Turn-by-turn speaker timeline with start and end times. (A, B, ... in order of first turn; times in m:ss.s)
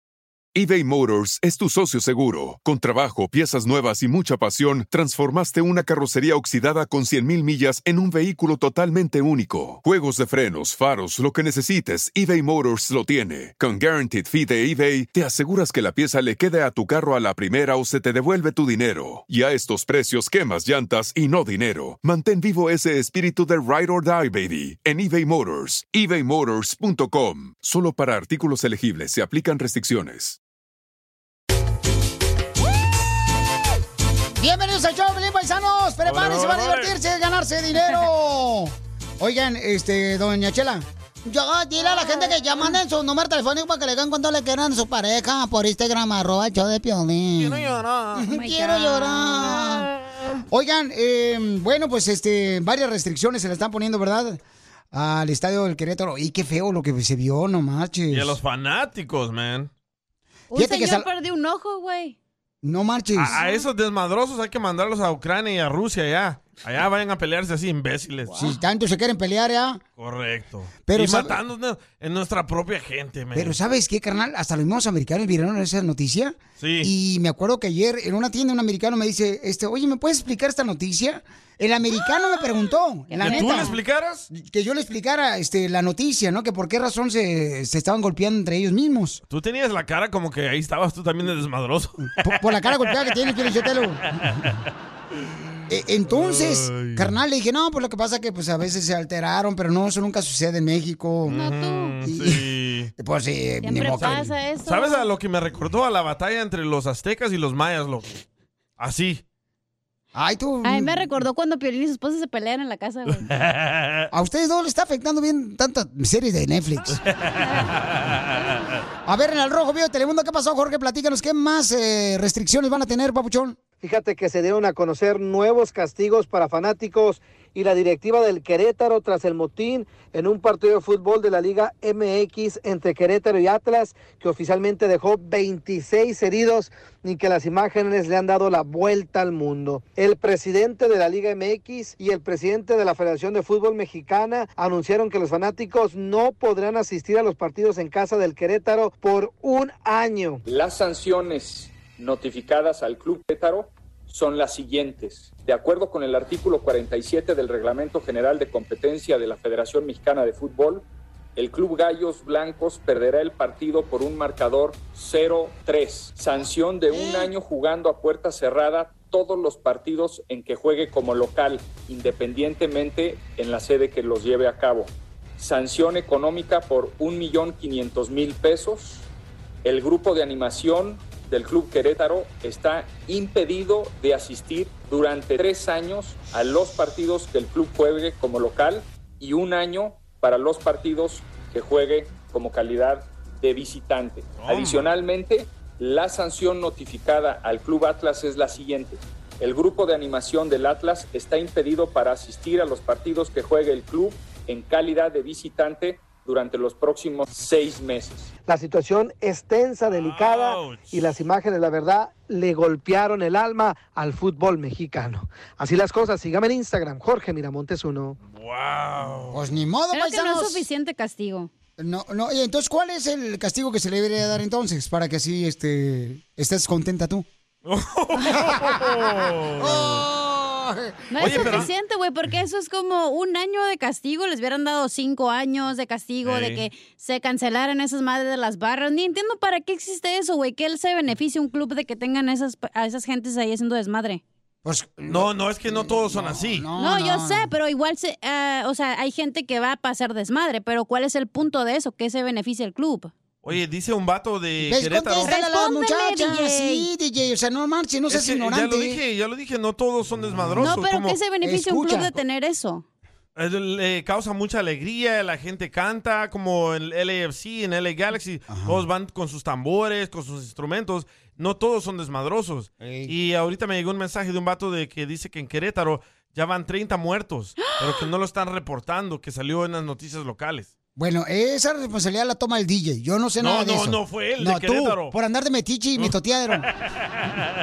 0:00.6-0:30.4 A
0:34.4-0:49.9 B
0:36.0-0:37.0 C
0:41.8-0:42.8 D
0:47.4-0:48.3 C
0:48.3-0:49.6 D
0:50.5-0:54.4 B
0:54.9-0:58.4 B
0:58.1-0:59.7 C
1:00.5-1:02.2 D
1:00.5-1:01.1 B
1:02.6-1:03.4 B
1:03.2-1:08.3 C
1:03.4-1:03.6 D
1:08.3-1:09.8 B
1:10.0-1:13.6 C
1:10.9-1:11.4 B
1:13.4-1:23.8 B
1:16.6-1:16.9 C
1:23.1-1:23.8 D
1:23.2-1:24.3 C
1:24.3-1:29.2 B
1:29.3-1:32.9 C
1:32.2-1:34.4 B
1:34.2-1:34.5 C
1:35.7-1:41.4 B
1:36.1-1:37.1 C
1:41.3-1:42.9 C
1:41.3-1:42.0 D
1:42.0-1:42.4 B
1:43.0-1:44.3 B
1:43.6-1:45.1 D
1:44.6-1:48.2 C
1:48.8-1:49.2 C
1:50.1-1:51.1 B
1:50.6-1:53.3 D
1:53.3-1:54.1 C
1:54.1-1:57.0 B
1:57.1-1:58.5 C
1:57.4-1:57.7 D
1:59.1-2:03.6 B
2:03.8-2:30.4 E
2:30.5-2:59.1 F
2:59.6-3:28.3 F
3:14.4-3:14.9 C
3:28.5-3:38.2 E
3:29.9-3:31.0 C
3:38.3-3:39.4 C
3:39.3-3:40.7 B
3:39.9-3:41.5 D
3:41.8-3:47.3 B
3:47.6-3:50.0 C
3:48.3-3:49.0 B
3:49.6-3:51.7 B
3:51.1-4:04.2 D
3:51.2-3:51.7 C
3:56.2-3:56.6 C
4:04.6-4:07.5 B
4:05.1-4:06.7 C
4:06.8-4:13.1 D
4:13.4-4:15.3 C
4:14.6-4:19.0 B
4:15.2-4:16.9 D
4:18.1-4:21.2 C
4:20.4-4:20.8 B
4:20.6-4:22.8 D
4:21.4-4:22.2 B
4:23.4-4:40.7 C
4:28.5-4:28.8 B
4:32.8-4:33.1 B
4:41.0-4:46.7 B
4:43.4-4:45.2 C
4:47.2-4:47.5 C